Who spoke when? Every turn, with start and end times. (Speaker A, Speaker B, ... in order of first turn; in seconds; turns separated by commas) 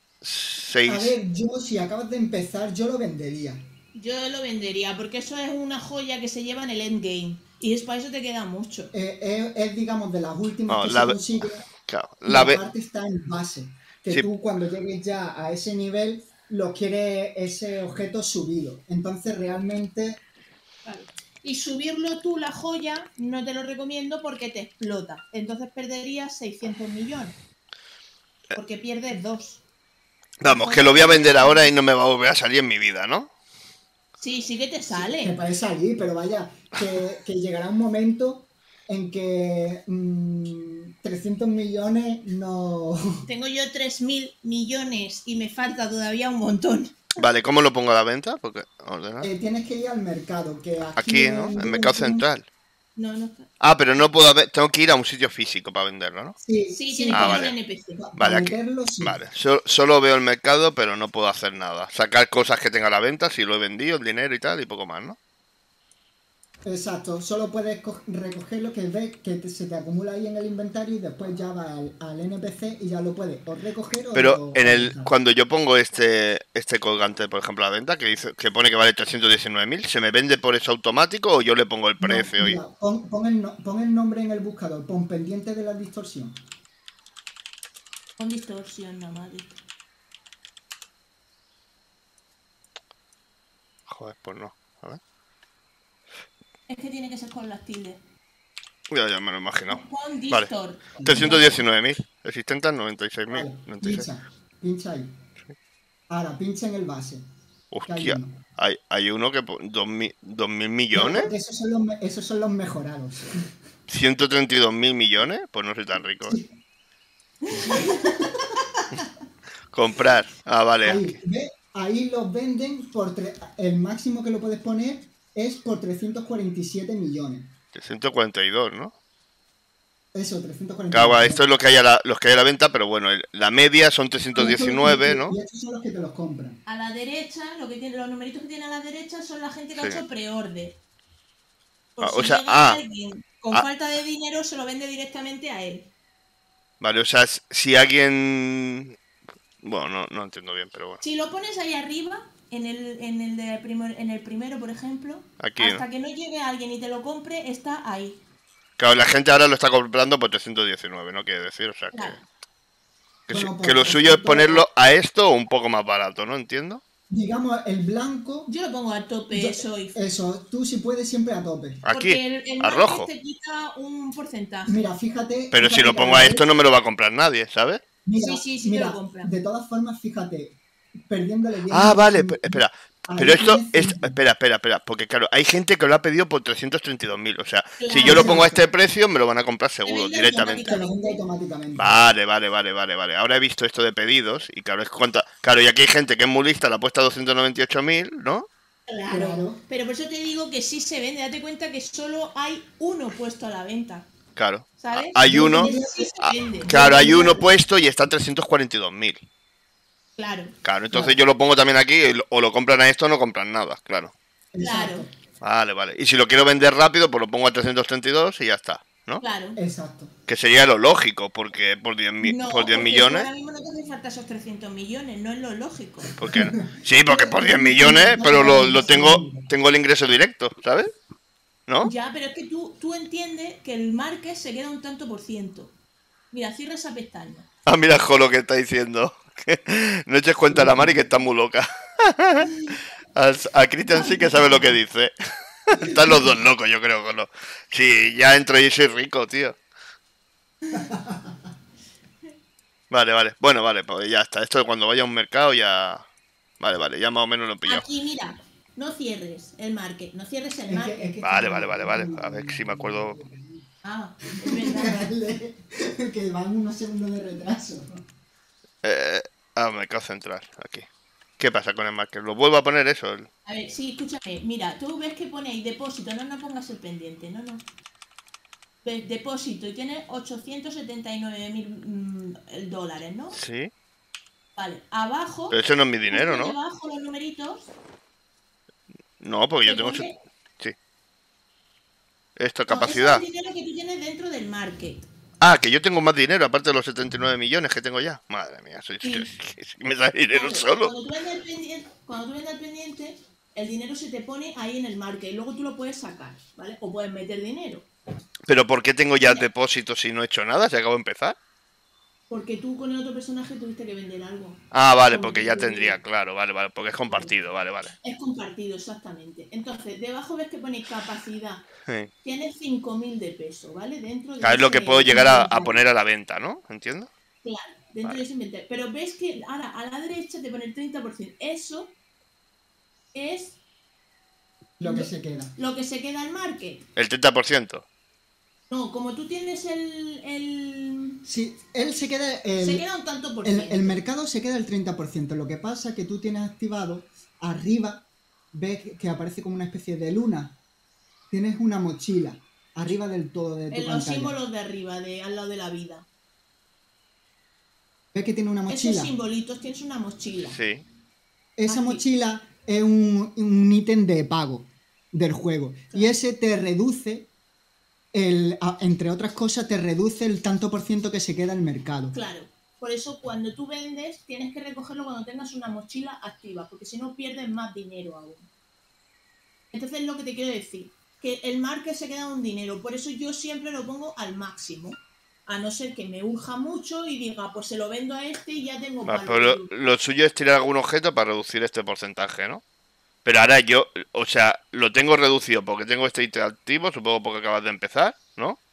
Speaker A: 0.2-1.1, Speaker B: 0.8-3.6, Speaker C: 4.0-8.9, Speaker B: 8.9-11.6, Speaker A: 10.7-12.6, Speaker B: 12.3-20.2, Speaker C: 20.9-27.4, Speaker C: 28.5-29.6, Speaker A: 30.4-33.3, Speaker C: 30.4-31.7, Speaker C: 34.2-35.4, Speaker B: 34.9-43.3, Speaker C: 43.3-47.2, Speaker A: 47.2-49.3, Speaker B: 49.2-52.2, Speaker A: 51.0-52.5, Speaker C: 53.0-53.5, Speaker A: 53.6-56.4, Speaker B: 56.4-57.5, Speaker C: 56.7-58.0, Speaker A: 57.1-57.5, Speaker B: 58.0-59.2, Speaker A: 58.2-65.2, Speaker B: 66.7-75.1, Speaker A: 74.1-82.6, Speaker B: 82.0-86.4, Speaker C: 88.2-89.6, Speaker A: 93.9-95.0, Speaker C: 96.7-98.0, Speaker A: 98.9-104.1, Speaker C: 99.7-101.6, Speaker B: 101.0-101.4, Speaker B: 103.3-105.2, Speaker B: 106.1-107.3, Speaker A: 107.7-111.3, Speaker B: 107.9-108.4, Speaker B: 111.0-113.5, Speaker A: 113.9-116.4, Speaker B: 116.3-116.5, Speaker B: 117.6-118.8, Speaker A: 119.7-121.2, Speaker B: 120.8-127.5, Speaker A: 127.7-128.9, Speaker B: 130.1-131.4, Speaker A: 130.9-135.4, Speaker B: 134.3-136.6, Speaker C: 136.7-140.8, Speaker A: 139.8-140.0, Speaker C: 142.0-145.9, Speaker A: 142.0-142.8, Speaker A: 146.8-149.0, Speaker A: 149.6-151.0, Speaker C: 151.0-158.2, Speaker A: 155.4-155.8, Speaker A: 158.8-162.2, Speaker C: 161.9-162.2, Speaker A: 163.3-166.8, Speaker B: 163.3-164.7, Speaker B: 167.1-168.5, Speaker C: 168.5-170.0, Speaker B: 169.3-171.8, Speaker A: 171.8-173.1, Speaker C: 171.9-174.8, Speaker B: 174.7-176.6, Speaker A: 175.5-177.8, Speaker B: 178.1-184.2, Speaker C: 178.2-179.3, Speaker A: 181.7-190.8, Speaker C: 187.8-188.5, Speaker B: 188.0-188.6, Speaker C: 189.8-191.2, Speaker B: 190.7-192.0, Speaker A: 191.8-198.5, Speaker C: 198.9-204.1, Speaker B: 199.1-199.6, Speaker A: 204.4-209.2, Speaker C: 204.8-207.5, Speaker B: 205.2-206.1, Speaker C: 210.2-210.5, Speaker A: 210.6-214.1, Speaker B: 210.9-211.2, Speaker B: 214.5-215.1, Speaker C: 214.6-215.1, Speaker A: 215.4-219.2, Speaker C: 219.2-219.6, Speaker B: 219.6-220.1, Speaker A: 220.3-223.3, Speaker C: 222.2-226.1, Speaker A: 226.2-230.9, Speaker B: 226.2-226.5, Speaker B: 227.1-229.5, Speaker C: 231.8-235.7, Speaker C: 236.3-237.5, Speaker A: 237.7-245.1, Speaker A: 245.7-249.6, Speaker B: 250.7-251.5, Speaker A: 252.9-256.0, Speaker A: 256.6-257.9, Speaker C: 257.7-261.1, Speaker B: 260.7-263.7, Speaker A: 261.2-263.2, Speaker C: 263.8-265.1, Speaker B: 264.4-268.0, Speaker A: 268.8-270.9, Speaker A: 271.4-273.3, Speaker C: 273.5-277.6, Speaker C: 278.8-283.4, Speaker A: 283.3-283.7, Speaker C: 284.6-285.6, Speaker A: 285.5-286.6, Speaker C: 286.1-287.7, Speaker A: 289.2-290.1, Speaker C: 289.6-290.2, Speaker A: 292.4-293.2, Speaker C: 292.7-295.1, Speaker A: 295.4-300.9, Speaker C: 299.0-299.3, Speaker C: 300.3-307.9, Speaker A: 308.5-311.4, Speaker C: 309.2-309.5, Speaker C: 312.3-316.0, Speaker A: 314.7-317.9, Speaker C: 318.0-321.7, Speaker A: 321.9-322.1, Speaker C: 322.2-325.8, Speaker A: 324.4-327.1, Speaker C: 327.4-331.9, Speaker C: 333.1-333.6, Speaker B: 334.8-335.5, Speaker C: 334.8-336.9, Speaker A: 337.0-337.9, Speaker C: 338.7-341.2, Speaker B: 341.2-342.9, Speaker C: 342.6-344.0, Speaker B: 343.4-350.6, Speaker B: 351.3-354.4, Speaker C: 353.7-356.1, Speaker B: 358.1-359.1, Speaker C: 358.7-360.6, Speaker A: 360.4-360.8, Speaker B: 361.6-367.3, Speaker C: 361.7-362.0, Speaker B: 368.1-372.2, Speaker C: 372.1-378.5, Speaker C: 379.7-389.7, Speaker A: 389.1-392.6, Speaker A: 393.2-398.6